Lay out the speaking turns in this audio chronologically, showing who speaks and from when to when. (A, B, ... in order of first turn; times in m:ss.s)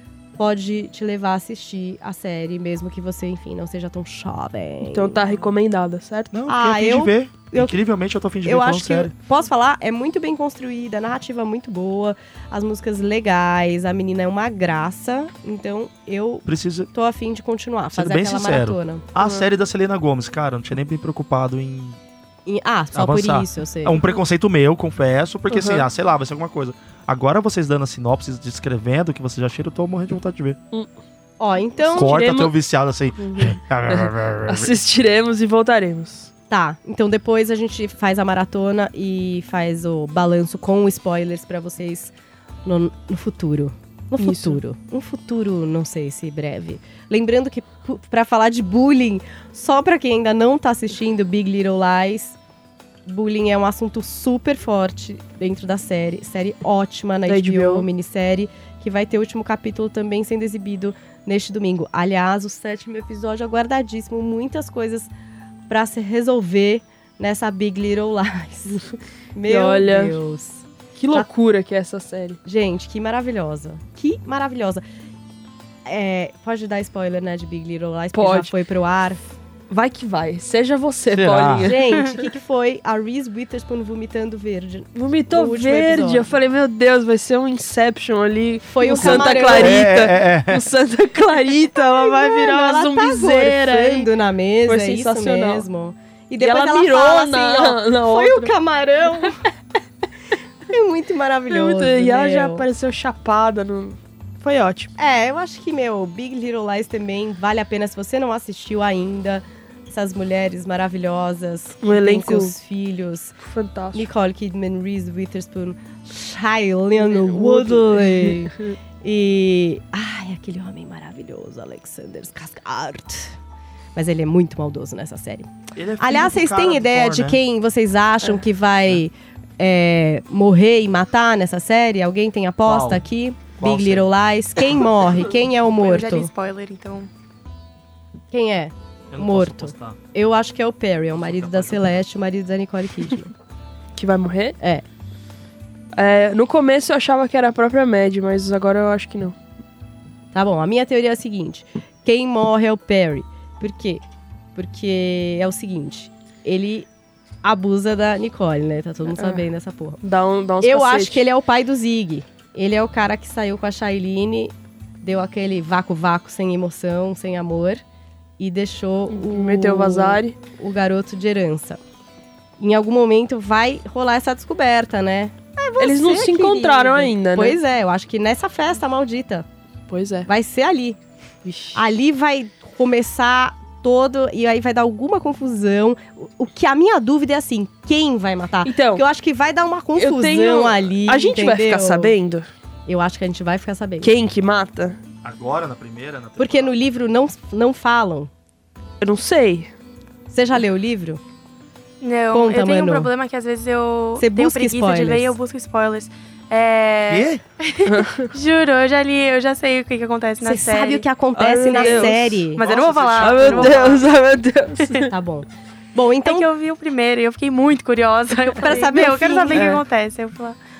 0:00.4-0:05.2 A
0:04.8-0:06.3 B
0:06.3-0:09.1 C
0:06.5-0:07.8 A
0:08.4-0:19.1 A
0:16.4-0:16.9 C
0:17.9-0:22.0 C
0:19.2-0:19.5 B
0:22.4-0:24.1 A
0:22.9-0:30.6 C
0:25.5-0:25.8 B
0:31.4-0:32.2 A
0:31.8-0:32.5 B
0:32.0-0:34.8 C
0:33.2-0:36.3 B
0:36.5-0:42.1 A
0:42.6-0:52.4 A
0:44.2-0:44.6 B
0:53.0-1:05.1 A
0:57.3-0:57.9 B
1:05.7-1:08.8 A
1:09.3-1:11.3 A
1:09.4-1:10.2 B
1:11.0-1:12.4 B
1:12.4-1:14.8 A
1:15.8-1:19.2 A
1:18.1-1:18.5 B
1:19.7-1:22.2 B
1:21.1-1:21.7 C
1:21.6-1:26.3 A
1:24.9-1:34.1 B
1:28.6-1:29.9 A
1:29.0-1:30.7 C
1:31.8-1:39.4 A
1:34.6-1:35.6 B
1:36.4-1:38.5 B
1:40.7-1:42.7 A
1:41.5-1:44.9 B
1:45.0-1:53.4 A
1:51.8-1:52.5 B
1:53.4-1:54.1 B
1:53.9-2:03.4 A
1:57.0-1:58.7 B
2:03.9-2:16.3 A
2:05.7-2:07.4 C
2:12.6-2:13.0 C
2:13.6-2:14.1 C
2:15.8-2:17.1 D
2:18.3-2:23.3 A
2:19.1-2:20.0 C
2:21.2-2:21.9 C
2:23.9-2:24.6 B
2:25.9-2:29.4 B
2:30.3-2:34.0 A
2:34.5-2:36.9 A
2:37.4-2:40.0 A
2:39.1-2:39.5 B
2:40.0-2:41.2 B
2:40.6-2:47.8 A
2:48.4-2:51.8 A
2:49.1-2:50.4 B
2:52.6-2:59.4 A
2:55.8-2:57.6 B
2:59.9-3:00.3 B
3:00.2-3:01.0 A
3:01.4-3:01.8 B
3:01.7-3:12.2 A
3:08.6-3:09.0 B
3:10.0-3:12.5 B
3:12.9-3:14.1 A
3:14.0-3:15.0 B
3:15.2-3:16.7 C
3:16.4-3:18.3 A
3:19.0-3:19.7 B
3:20.3-3:21.2 A
3:22.0-3:31.0 D
3:22.3-3:23.1 A
3:24.2-3:25.3 A
3:27.1-3:27.4 C
3:27.8-3:28.3 B
3:30.4-3:32.6 A
3:31.3-3:32.5 B
3:31.7-3:34.1 D
3:32.6-3:33.4 C
3:33.2-3:35.1 B
3:33.2-3:33.9 A
3:35.1-3:36.5 A
3:36.2-3:40.6 D
3:38.6-3:39.7 A
3:39.5-3:39.8 B